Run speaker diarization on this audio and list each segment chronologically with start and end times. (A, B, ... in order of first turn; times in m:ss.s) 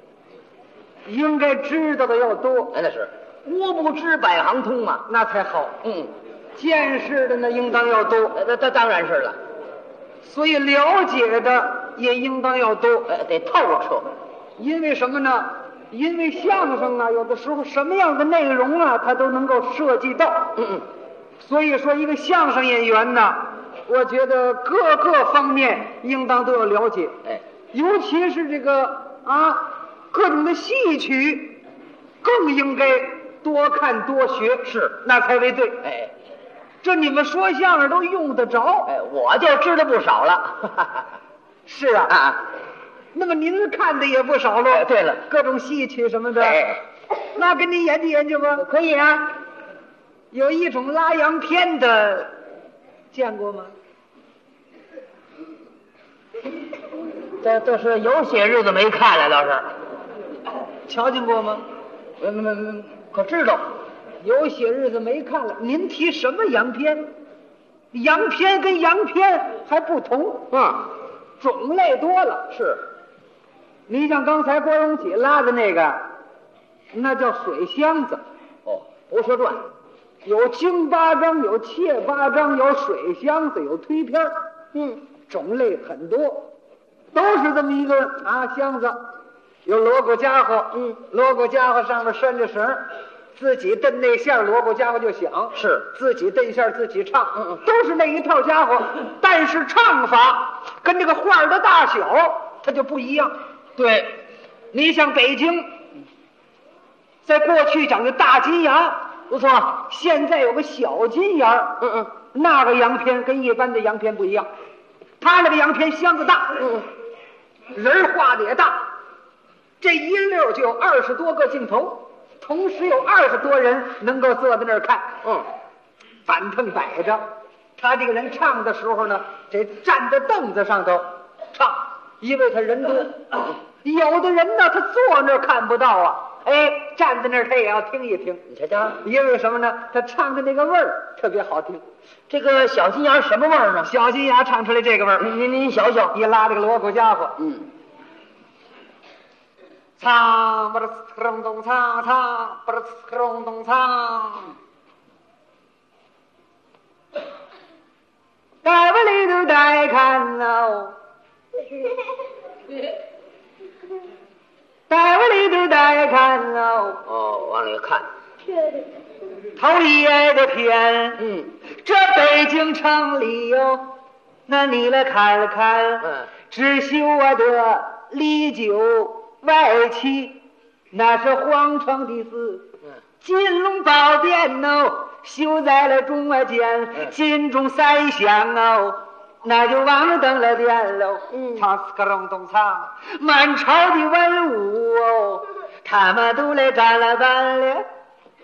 0:01.0-0:02.7 A
0:02.7-0:05.0 B
0:05.1-0:05.8 A
0:05.8-0:06.1 B
0:06.6-0:08.4 A
0:08.3-0:09.4 B
0:10.2-0:13.1 A
0:13.1-0:14.1 B
0:14.6-0:20.6 A
0:20.6-0:20.8 B
0:21.4-0:27.2 A
0:27.7-0:31.6 A
0:32.2-0:35.8 A
0:34.6-0:35.0 B
0:35.8-0:36.1 B
0:36.8-0:38.9 A
0:38.9-0:41.1 B
0:41.6-0:42.2 A
0:42.1-0:42.4 B
0:43.1-0:46.8 A
0:44.7-0:45.2 B
0:46.4-0:46.8 B
0:47.3-0:48.6 A
0:48.5-0:49.3 B
0:50.3-0:52.3 A
0:53.1-0:53.7 A
0:57.4-0:59.7 B
1:00.9-1:01.6 A
1:02.2-1:03.7 B
1:04.2-1:07.1 A
1:07.9-1:10.5 A
1:10.5-1:10.9 B
1:11.4-1:12.5 A
1:12.5-1:12.8 B
1:13.9-1:16.0 A
1:16.9-1:18.2 A
1:18.6-1:19.7 B
1:20.2-1:24.4 A
1:24.7-1:25.0 B
1:25.3-1:26.5 A
1:27.1-1:29.0 A
1:29.6-1:43.3 A
1:35.5-1:35.8 B
1:43.8-1:44.2 B
1:44.7-1:45.7 A
1:47.2-1:49.1 A
1:49.3-1:49.8 B
1:49.8-1:54.5 A
1:51.8-1:52.1 B
1:55.2-1:56.8 A
1:57.7-1:58.9 A
1:59.8-2:05.2 A
2:06.2-2:18.4 A
2:18.5-2:19.0 B
2:19.0-2:21.8 A
2:22.3-2:23.9 B
2:23.8-2:25.4 A
2:25.2-2:26.1 B
2:26.1-2:27.4 A
2:30.0-2:34.6 A
2:38.6-2:41.0 A
2:44.9-2:47.0 A
2:47.0-2:48.1 B
2:49.6-2:54.0 A
2:51.2-2:51.5 B
2:54.5-3:00.4 A
3:00.9-3:02.6 A
3:03.2-3:17.8 A
3:11.3-3:11.6 B